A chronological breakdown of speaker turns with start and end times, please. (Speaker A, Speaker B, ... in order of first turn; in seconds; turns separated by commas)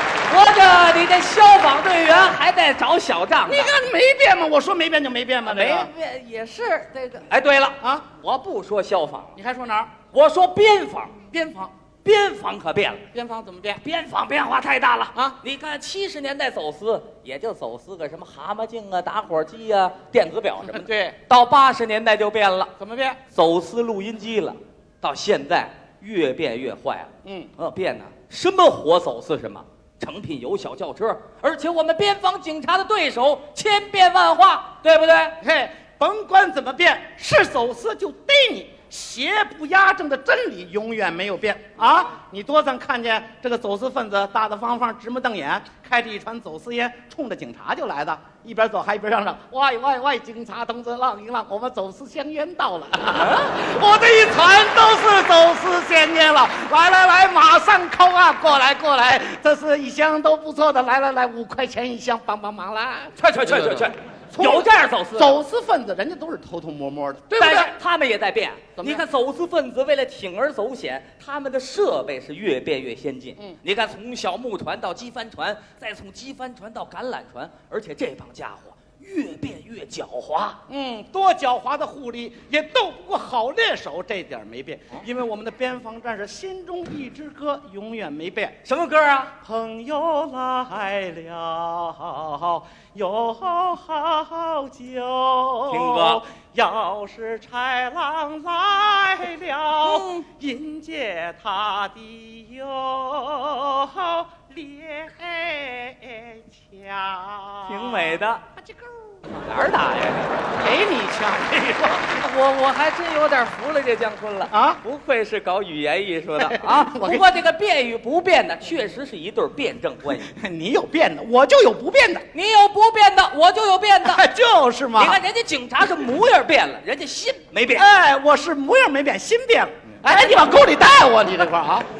Speaker A: 0.3-3.7, Speaker B: 3.5-5.9, Speaker A: 5.4-9.3, Speaker B: 7.8-8.0, Speaker B: 9.3-9.9, Speaker A: 10.1-11.2, Speaker B: 11.3-11.7, Speaker A: 12.0-13.0, Speaker B: 13.1-13.8, Speaker A: 13.8-22.7, Speaker B: 20.6-21.1, Speaker B: 22.8-23.2, Speaker A: 23.3-35.3, Speaker B: 27.2-27.5, Speaker B: 35.4-67.7, Speaker A: 53.1-53.5, Speaker A: 63.2-65.4, Speaker A: 67.3-80.6, Speaker B: 68.8-69.0, Speaker B: 80.7-88.5, Speaker A: 88.6-89.3, Speaker B: 89.4-109.2, Speaker A: 95.7-96.2, Speaker A: 99.8-100.2, Speaker A: 107.7-108.4, Speaker A: 109.3-110.4, Speaker B: 110.5-112.2, Speaker A: 112.1-120.3, Speaker B: 114.5-114.8, Speaker B: 116.4-117.2, Speaker B: 120.2-122.2, Speaker A: 122.3-124.2, Speaker B: 124.0-125.2, Speaker A: 125.0-127.8, Speaker B: 127.7-131.8, Speaker A: 130.1-130.6